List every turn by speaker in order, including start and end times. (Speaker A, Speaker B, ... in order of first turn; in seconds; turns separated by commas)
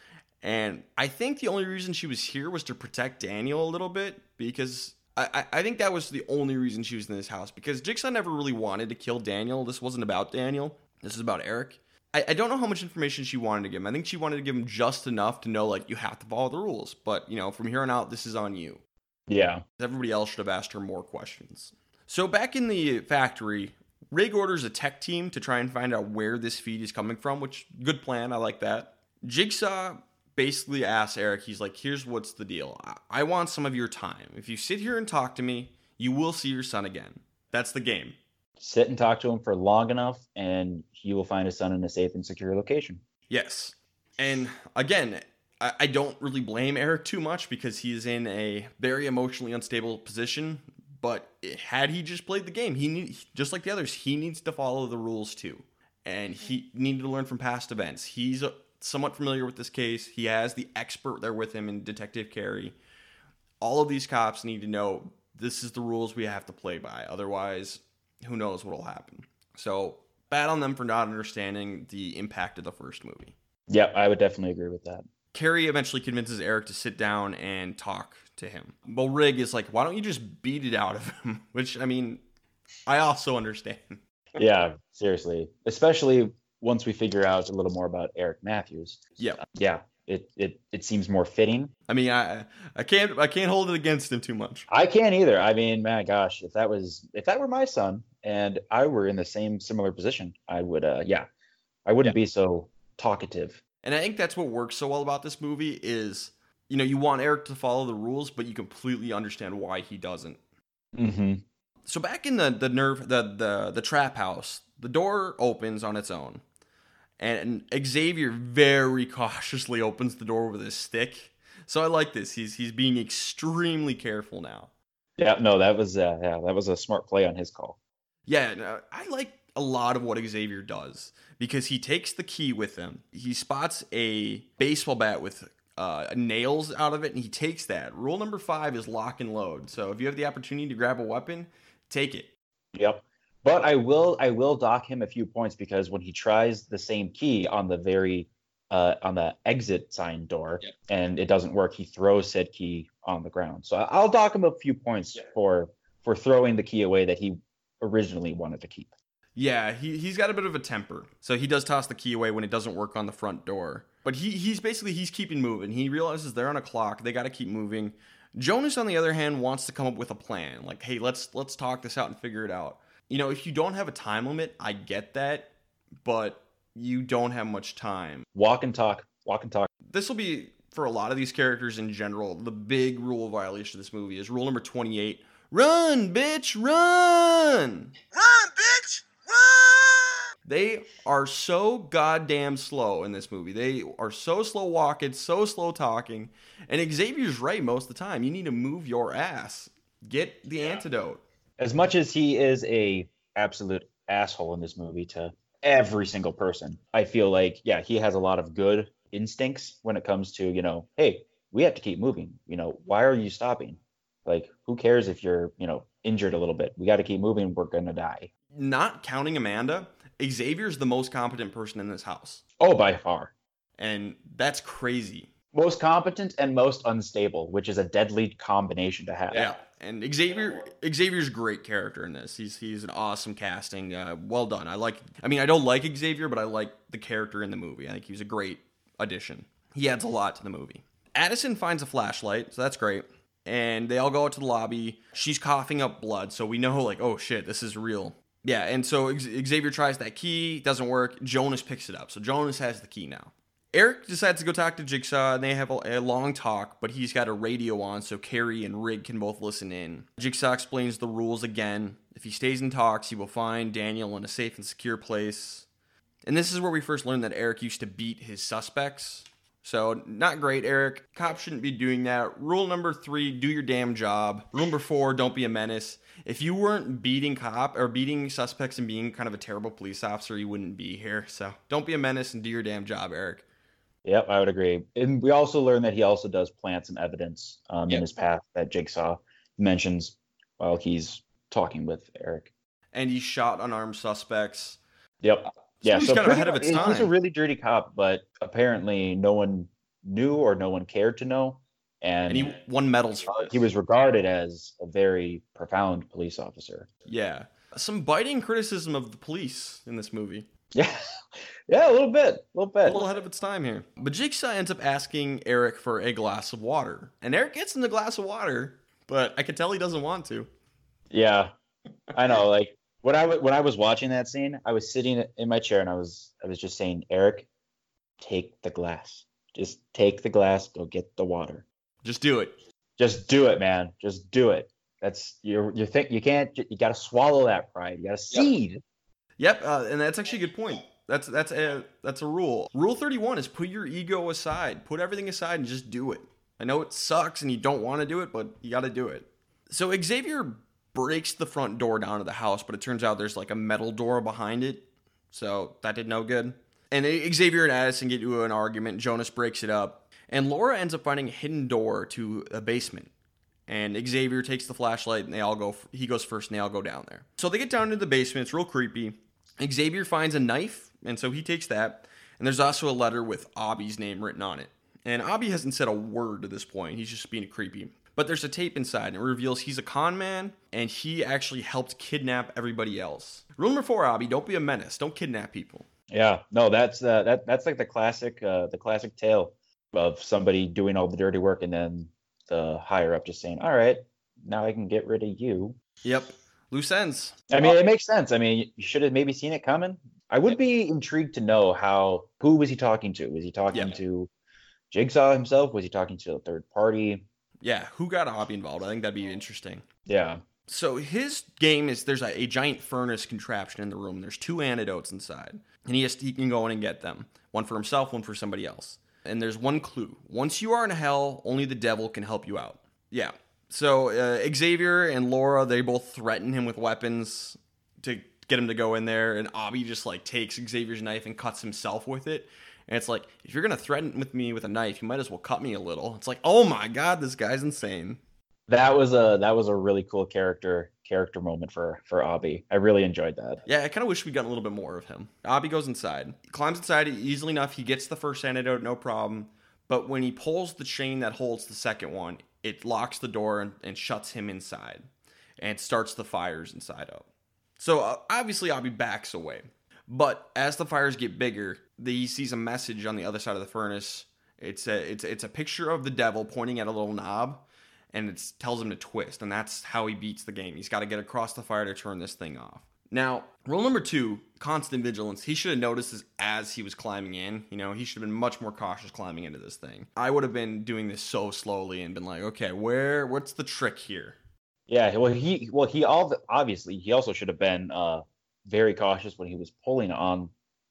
Speaker A: 0.4-18.8, Speaker B: 19.3-19.6, Speaker A: 19.8-38.1, Speaker B: 38.6-43.0, Speaker A: 43.3-62.8, Speaker A: 63.6-73.3, Speaker B: 73.7-75.0, Speaker A: 75.3-82.2, Speaker A: 82.9-84.0, Speaker B: 84.3-91.7, Speaker A: 91.9-94.7, Speaker B: 94.7-101.3, Speaker B: 101.8-103.6, Speaker A: 103.8-110.4, Speaker B: 110.9-111.4, Speaker A: 111.9-116.4, Speaker A: 117.2-124.7, Speaker B: 125.2-127.8, Speaker A: 128.3-142.3, Speaker B: 142.7-158.9, Speaker A: 159.3-175.5, Speaker A: 176.0-178.2, Speaker B: 178.3-179.7, Speaker A: 179.9-187.9, Speaker C: 188.1-190.2, Speaker A: 190.4-201.2, Speaker B: 201.6-218.3, Speaker A: 218.5-222.4, Speaker B: 222.6-223.3, Speaker A: 223.8-225.3, Speaker B: 225.5-229.5, Speaker A: 229.3-265.7, Speaker A: 266.2-283.4, Speaker B: 284.0-292.5, Speaker A: 292.9-294.8, Speaker B: 295.2-302.6, Speaker A: 295.8-297.1, Speaker A: 302.3-303.6, Speaker B: 303.4-306.9, Speaker A: 307.1-310.5, Speaker B: 310.7-313.0, Speaker A: 312.8-320.5, Speaker B: 321.1-321.5, Speaker B: 322.1-327.5, Speaker B: 328.2-331.6, Speaker A: 332.0-332.5, Speaker B: 333.0-338.8, Speaker A: 339.4-363.1, Speaker A: 363.7-385.9, Speaker B: 386.1-395.8, Speaker A: 396.0-397.5, Speaker B: 397.5-404.3, Speaker B: 404.9-407.2, Speaker A: 407.6-409.9, Speaker B: 410.1-410.4, Speaker A: 410.7-438.2, Speaker B: 438.7-443.6, Speaker A: 443.6-455.1, Speaker A: 455.6-457.3, Speaker A: 457.8-484.4, Speaker B: 484.9-490.5